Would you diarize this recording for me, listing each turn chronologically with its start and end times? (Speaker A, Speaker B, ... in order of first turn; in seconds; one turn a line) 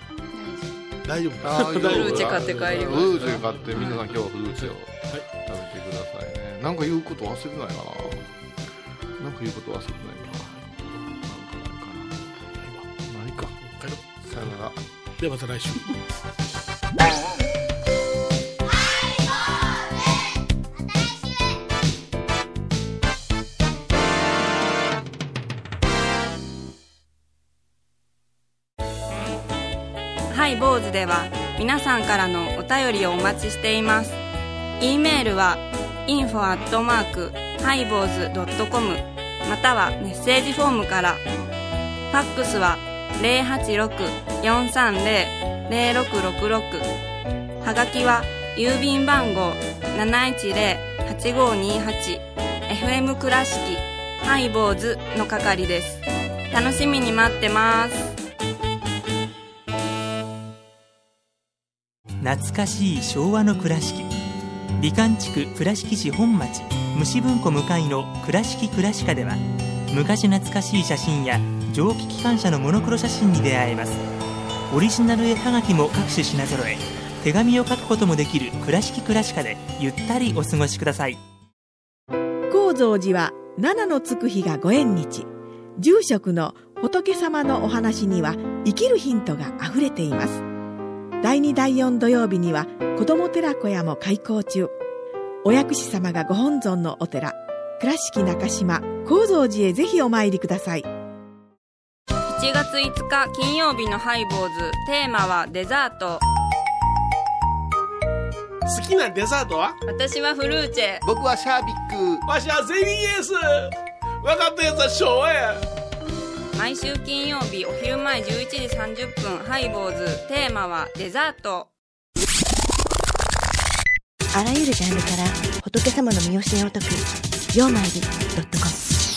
Speaker A: 0.3-0.9
Speaker B: 1.1-5.2
Speaker C: 1.4-8.2
Speaker A: 1.7-4.0
Speaker C: 9.2-10.6
Speaker C: 11.2-12.3
Speaker B: 12.4-12.9
Speaker C: 13.1-13.6
Speaker B: 13.6-14.4
Speaker C: 14.2-14.8
Speaker B: 15.2-16.0
Speaker A: 30.3-34.2
Speaker A: 34.8-41.2
Speaker A: 42.1-46.9
Speaker A: 47.6-58.1
Speaker D: 62.2-64.1
Speaker D: 64.8-74.0
Speaker D: 74.7-81.2
Speaker E: 82.5-90.4
Speaker E: 91.2-94.7
Speaker E: 95.4-100.9
Speaker A: 102.3-106.2
Speaker B: 108.7-109.8
Speaker A: 109.8-111.0
Speaker C: 111.0-112.2
Speaker B: 112.3-115.7
Speaker A: 116.5-121.7
Speaker F: 124.3-128.9